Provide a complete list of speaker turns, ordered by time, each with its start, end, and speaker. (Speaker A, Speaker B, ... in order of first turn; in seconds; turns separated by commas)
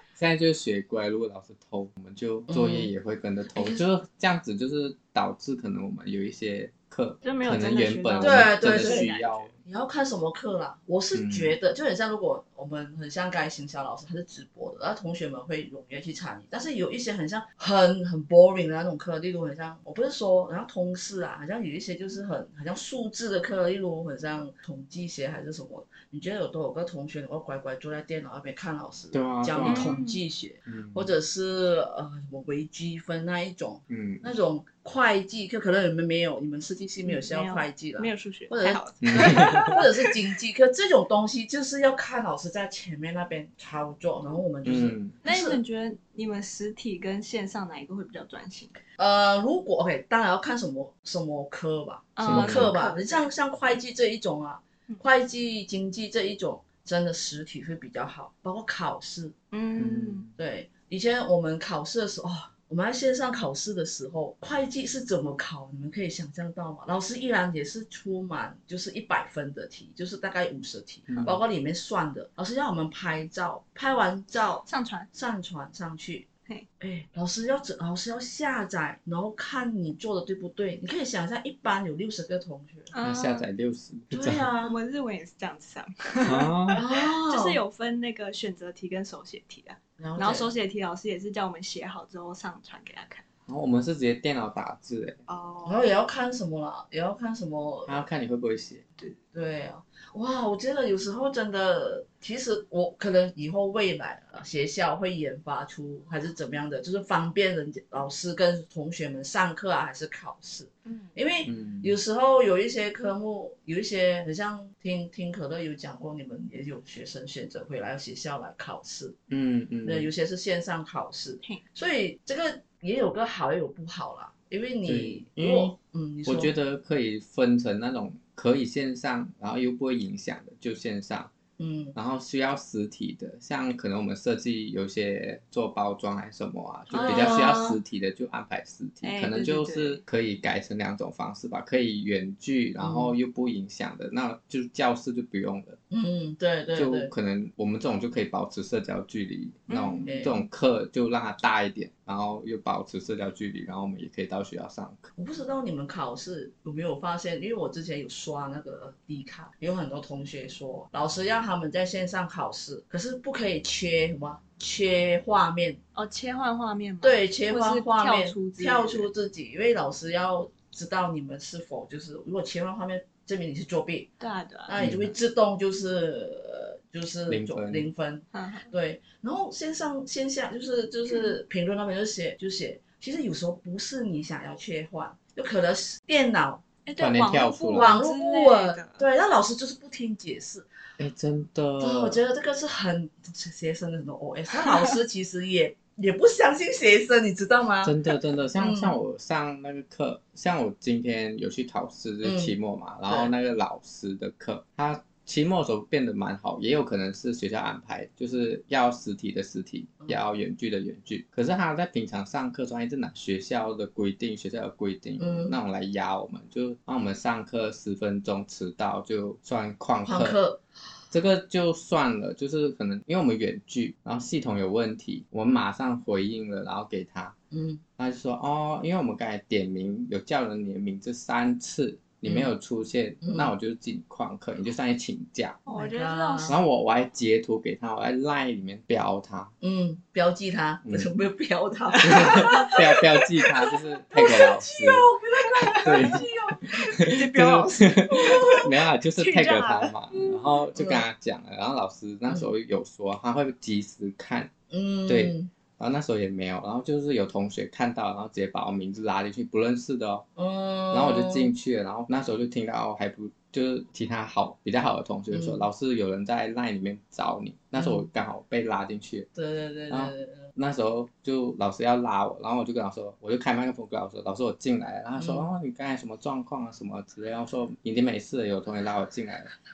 Speaker A: 0.1-9.6, Speaker B: 2.5-2.9, Speaker C: 7.2-9.5, Speaker B: 8.2-9.1, Speaker B: 9.7-45.6, Speaker A: 11.1-11.6, Speaker A: 29.1-30.0, Speaker C: 29.6-30.2, Speaker A: 30.7-31.1, Speaker A: 33.9-34.3, Speaker C: 37.0-40.1, Speaker A: 39.0-39.8, Speaker A: 44.6-45.2, Speaker C: 45.2-48.7, Speaker B: 49.0-59.3, Speaker C: 52.2-53.3, Speaker A: 52.2-52.7, Speaker C: 59.5-60.3, Speaker A: 59.8-60.3, Speaker B: 60.4-82.9, Speaker A: 71.1-71.4, Speaker C: 74.7-75.1, Speaker C: 82.9-83.5, Speaker A: 83.0-84.5, Speaker B: 84.1-84.8, Speaker C: 84.6-93.2, Speaker A: 86.2-86.8, Speaker B: 86.7-87.6, Speaker B: 90.0-90.5, Speaker A: 93.5-95.2, Speaker C: 95.3-95.9, Speaker B: 95.7-98.0, Speaker A: 97.9-98.8, Speaker B: 99.3-119.2, Speaker C: 110.9-111.1, Speaker A: 111.5-112.0, Speaker A: 119.3-120.1, Speaker B: 119.8-126.5, Speaker A: 124.9-125.8, Speaker A: 126.3-131.3, Speaker B: 131.6-132.0, Speaker A: 131.9-145.8, Speaker B: 136.9-137.7, Speaker C: 136.9-137.8, Speaker C: 139.0-140.0, Speaker B: 142.8-143.2, Speaker B: 145.9-147.1, Speaker A: 146.8-155.1, Speaker C: 149.7-150.1, Speaker B: 150.1-150.5, Speaker B: 155.2-165.8, Speaker C: 165.9-169.1, Speaker B: 167.0-174.1, Speaker C: 174.2-174.8, Speaker B: 174.7-186.6, Speaker A: 174.8-175.2, Speaker A: 177.3-177.9, Speaker C: 178.3-178.7, Speaker C: 186.9-189.1, Speaker A: 187.0-187.9, Speaker B: 187.7-190.7, Speaker A: 191.0-192.2, Speaker B: 191.8-198.0, Speaker A: 197.8-220.4, Speaker B: 198.6-198.9, Speaker B: 202.2-202.6, Speaker B: 203.1-203.3, Speaker B: 215.2-215.6, Speaker B: 220.1-220.6, Speaker A: 221.1-227.3, Speaker B: 227.5-227.8, Speaker A: 228.0-235.6, Speaker B: 232.2-232.5, Speaker B: 233.2-233.5, Speaker C: 235.7-236.6, Speaker B: 235.7-236.6, Speaker A: 236.5-239.5, Speaker B: 239.6-243.1, Speaker A: 240.8-241.1, Speaker C: 241.9-242.8, Speaker A: 242.0-245.1, Speaker B: 244.1-247.1, Speaker C: 245.4-248.6, Speaker A: 245.8-254.5, Speaker B: 248.1-248.7, Speaker C: 249.2-249.9, Speaker B: 250.8-251.1, Speaker B: 254.7-255.5, Speaker A: 255.1-260.3, Speaker B: 260.4-261.5, Speaker A: 260.9-269.3, Speaker B: 265.3-265.6, Speaker B: 267.8-268.1, Speaker B: 269.4-270.5, Speaker A: 269.9-279.5, Speaker B: 275.2-275.5